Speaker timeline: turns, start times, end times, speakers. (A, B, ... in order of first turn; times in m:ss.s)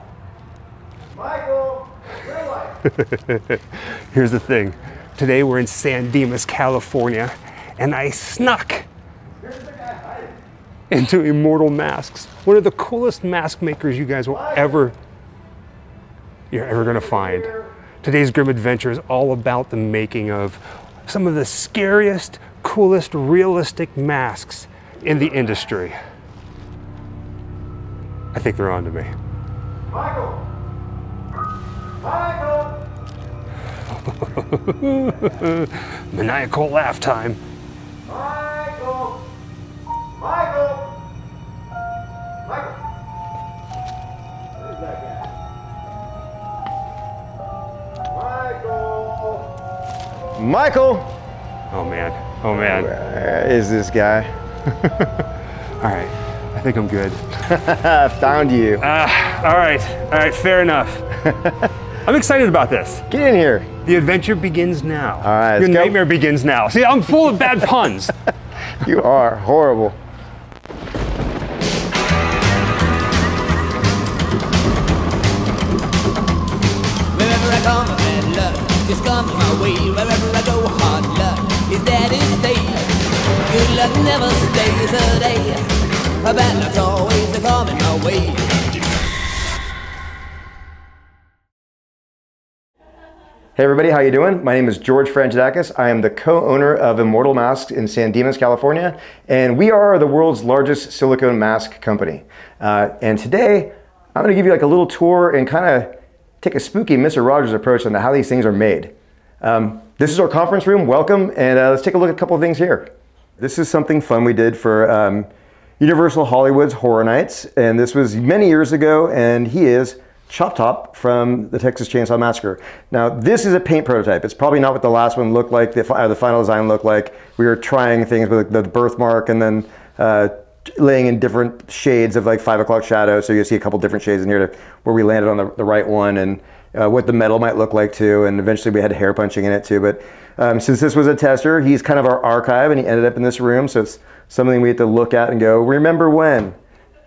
0:01.1-0:02.8 A
0:03.0-0:08.9 B
0:09.4-0:10.4 A
0:10.9-0:14.9 B
0:14.3-0:14.8 A
0:16.5-0:17.5 B
0:16.7-0:17.7 A
0:18.0-0:26.0 B
0:28.3-0:29.1 B
0:29.9-0:30.4 A
0:32.0-0:32.8 A
0:34.1-0:37.4 B
0:38.0-0:39.3 A
0:40.1-0:41.0 A
0:42.4-0:42.8 A
0:44.6-0:45.3 A
0:48.0-0:49.5 A
0:50.4-0:51.1 A
0:51.7-0:52.9 B
0:52.5-0:54.3 A
0:54.8-0:55.2 B
0:55.8-0:57.2 B
0:57.4-0:58.8 A
0:58.8-1:01.1 B
1:01.2-1:01.7 A
1:02.0-1:03.0 B
1:03.1-1:03.7 A
1:03.8-1:08.1 B
1:05.2-1:06.0 A
1:08.8-1:10.0 A
1:17.1-1:22.9 C
1:23.5-1:25.6 C
1:26.2-1:28.6 C
1:33.6-2:26.6 A